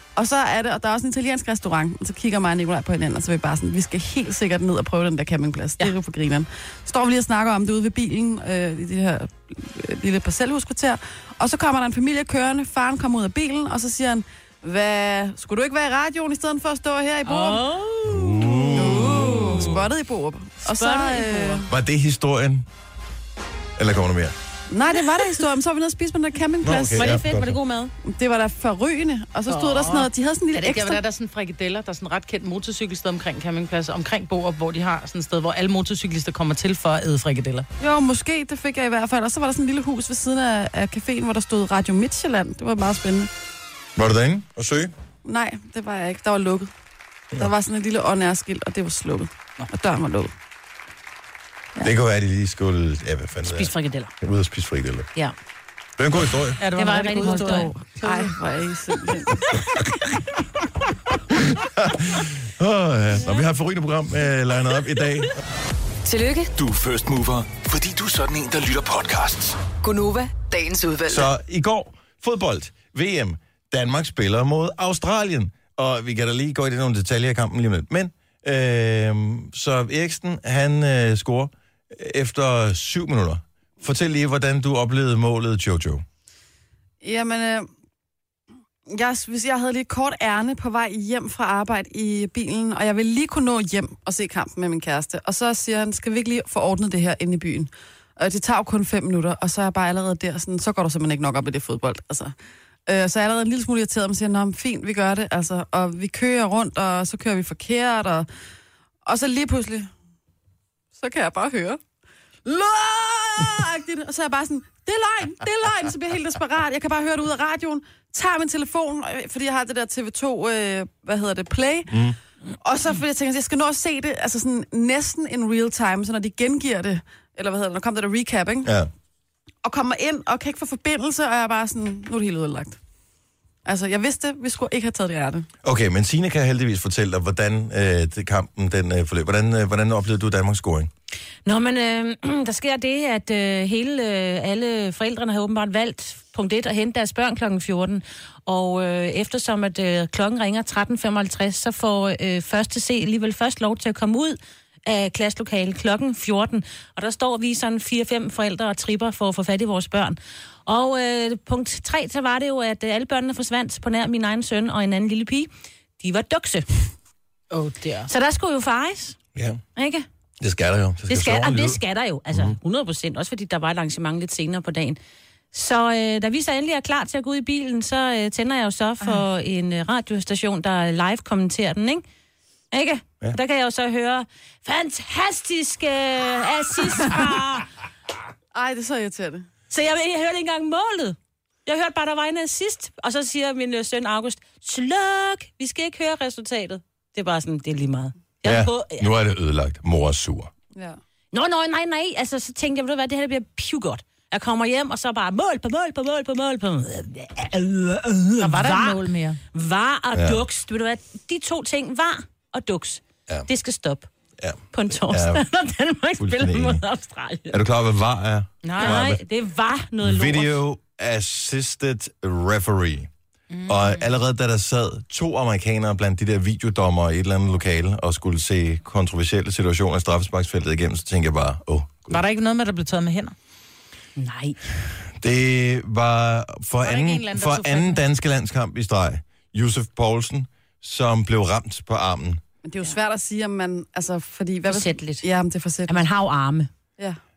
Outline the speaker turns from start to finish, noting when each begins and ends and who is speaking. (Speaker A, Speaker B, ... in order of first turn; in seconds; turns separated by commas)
Speaker A: 0.1-17.6, Speaker B: 17.2-19.8, Speaker C: 18.1-19.9, Speaker A: 18.7-21.7, Speaker B: 20.6-21.7, Speaker C: 21.7-22.7, Speaker C: 23.8-24.3, Speaker A: 24.7-27.2, Speaker C: 26.6-27.6, Speaker B: 26.9-27.9, Speaker A: 28.0-31.0, Speaker D: 29.5-37.7, Speaker A: 37.8-43.3, Speaker C: 44.0-44.9, Speaker A: 45.2-46.7, Speaker A: 47.3-50.3, Speaker C: 51.8-55.1, Speaker B: 53.5-54.1, Speaker C: 56.0-56.6, Speaker D: 56.6-58.3, Speaker B: 56.8-58.3, Speaker A: 57.2-59.6, Speaker C: 61.5-65.3, Speaker E: 66.0-66.5, Speaker F: 66.5-69.6, Speaker E: 69.8-71.3, Speaker C: 71.1-86.0, Speaker A: 87.0-87.7, Speaker A: 88.9-102.3, Speaker A: 102.9-108.3, Speaker A: 109.0-109.9, Speaker A: 111.0-111.8, Speaker A: 112.5-122.1, Speaker C: 121.9-122.2, Speaker A: 122.6-128.7, Speaker C: 128.6-128.9, Speaker A: 129.6-132.8, Speaker A: 133.6-135.5, Speaker C: 135.6-140.9, Speaker B: 141.4-166.7, Speaker D: 167.5-168.1, Speaker B: 168.1-169.2, Speaker C: 169.3-169.6, Speaker B: 169.8-170.1, Speaker C: 170.4-171.8, Speaker B: 171.1-175.0, Speaker B: 175.5-182.0, Speaker B: 182.7-187.7, Speaker A: 188.5-189.5, Speaker B: 189.7-199.1, Speaker C: 198.4-200.5, Speaker B: 201.3-209.0, Speaker D: 208.4-209.4, Speaker B: 209.5-214.1, Speaker C: 210.1-210.4, Speaker C: 214.4-215.4, Speaker B: 214.7-217.6, Speaker C: 216.2-216.8, Speaker C: 217.5-219.2, Speaker D: 218.6-219.0, Speaker B: 218.8-220.6, Speaker C: 220.0-223.1, Speaker D: 223.5-224.0, Speaker C: 223.7-232.2, Speaker D: 232.1-233.3, Speaker B: 234.2-234.6, Speaker C: 235.1-242.4, Speaker D: 236.8-238.0, Speaker A: 242.6-246.1, Speaker B: 244.7-245.2, Speaker B: 245.9-246.7